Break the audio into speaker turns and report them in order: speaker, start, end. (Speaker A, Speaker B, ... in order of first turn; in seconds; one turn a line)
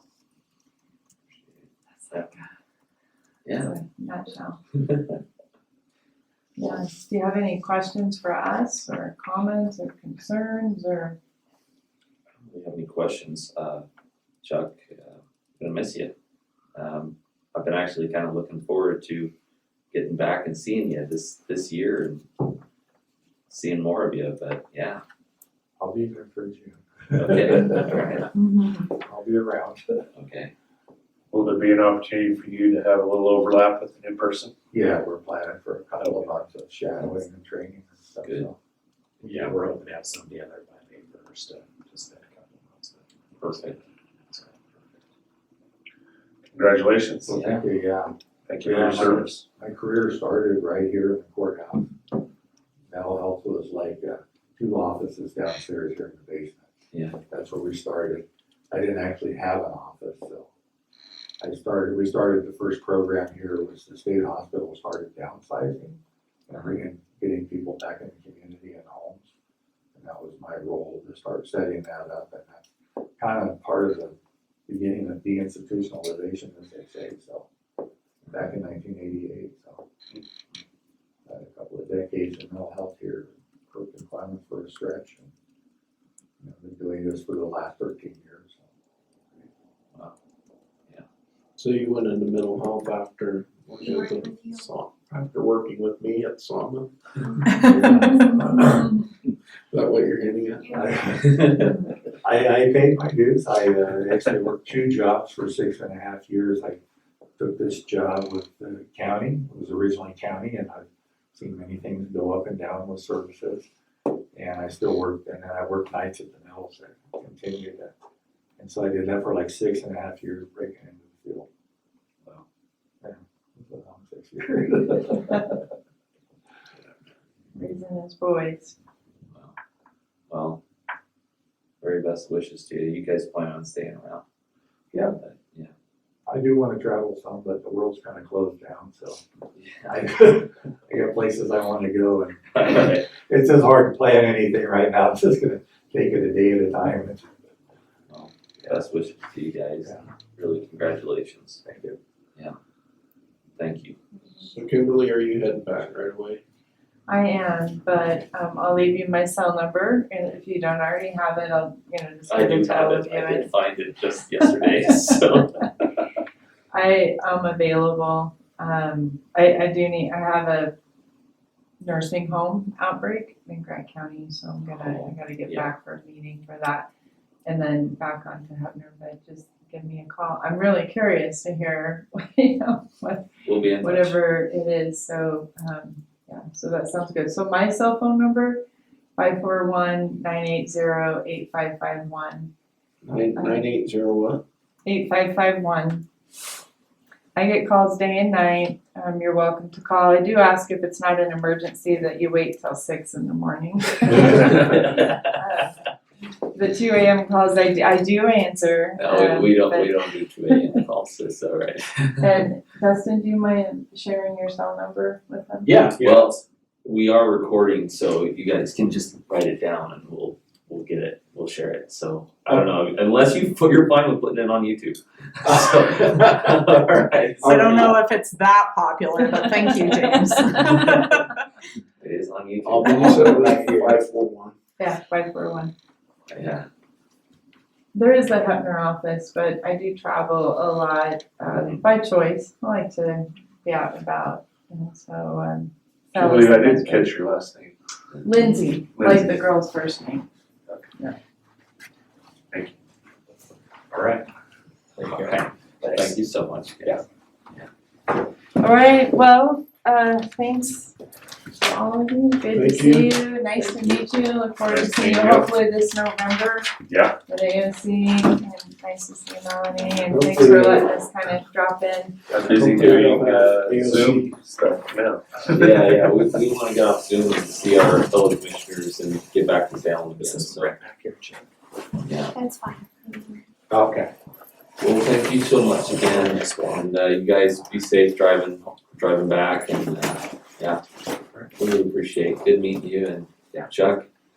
Speaker A: 2.1-2.4
Speaker B: 3.4-3.7
Speaker A: 3.5-4.6
Speaker B: 4.8-5.1
Speaker A: 6.6-11.2
Speaker B: 12.4-13.8
Speaker B: 14.4-16.1
Speaker B: 16.7-19.3
Speaker B: 19.9-22.2
Speaker B: 23.5-25.0
Speaker C: 25.8-28.0
Speaker B: 27.1-28.3
Speaker A: 28.3-28.9
Speaker C: 29.0-30.0
Speaker B: 30.1-30.5
Speaker D: 31.3-34.5
Speaker C: 34.7-38.5
Speaker B: 37.0-37.2
Speaker E: 39.2-43.0
Speaker B: 43.4-43.8
Speaker E: 44.3-44.6
Speaker D: 46.5-47.4
Speaker C: 47.3-51.9
Speaker B: 47.3-47.6
Speaker D: 48.5-49.4
Speaker E: 48.7-49.2
Speaker C: 52.9-56.7
Speaker B: 56.9-57.2
Speaker C: 57.3-60.5
Speaker C: 61.4-69.2
Speaker C: 69.9-72.7
Speaker C: 73.2-74.2
Speaker C: 74.7-77.5
Speaker C: 78.3-79.8
Speaker C: 81.2-85.3
Speaker C: 86.4-88.7
Speaker F: 91.5-96.9
Speaker C: 97.6-98.9
Speaker A: 97.9-98.2
Speaker F: 99.7-100.8
Speaker C: 100.7-106.8
Speaker B: 101.2-101.7
Speaker C: 107.4-113.7
Speaker C: 114.3-117.9
Speaker C: 118.6-121.5
Speaker C: 123.0-125.6
Speaker A: 127.5-128.8
Speaker B: 130.3-130.6
Speaker B: 131.8-134.2
Speaker C: 134.9-135.2
Speaker B: 135.2-135.7
Speaker C: 136.3-139.2
Speaker B: 139.6-140.0
Speaker C: 139.8-147.3
Speaker B: 142.5-143.1
Speaker B: 148.1-151.6
Speaker C: 151.6-152.0
Speaker B: 153.6-153.9
Speaker F: 154.4-156.4
Speaker A: 157.1-163.5
Speaker B: 162.3-165.8
Speaker A: 166.7-170.7
Speaker A: 171.8-176.9
Speaker B: 174.7-175.7
Speaker A: 177.4-183.3
Speaker B: 183.4-184.2
Speaker A: 183.8-188.6
Speaker A: 189.2-192.5
Speaker F: 193.0-194.4
Speaker A: 193.3-193.7
Speaker A: 194.8-196.1
Speaker A: 197.3-205.7
Speaker B: 204.4-205.1
Speaker A: 206.5-210.6
Speaker B: 209.0-212.3
Speaker A: 212.2-215.7
Speaker B: 215.6-228.0
Speaker C: 216.0-216.2
Speaker G: 227.4-231.2
Speaker A: 229.2-230.6
Speaker B: 232.0-233.4
Speaker F: 232.7-234.5
Speaker C: 232.8-233.9
Speaker A: 234.8-235.7
Speaker B: 236.3-236.7
Speaker A: 237.9-247.1
Speaker B: 241.5-241.8
Speaker D: 246.2-247.7
Speaker A: 248.2-250.2
Speaker D: 248.9-249.3
Speaker C: 255.0-255.3
Speaker B: 255.0-257.0
Speaker A: 258.6-260.9
Speaker A: 261.5-266.7
Speaker F: 262.5-263.1
Speaker D: 266.9-267.1
Speaker A: 267.2-272.1
Speaker D: 272.3-274.1
Speaker E: 272.5-274.2
Speaker F: 272.6-274.4
Speaker D: 274.8-275.2
Speaker B: 275.5-280.7
Speaker C: 280.2-281.4
Speaker B: 282.0-282.4
Speaker C: 283.7-284.1
Speaker B: 284.8-290.8
Speaker B: 291.6-294.1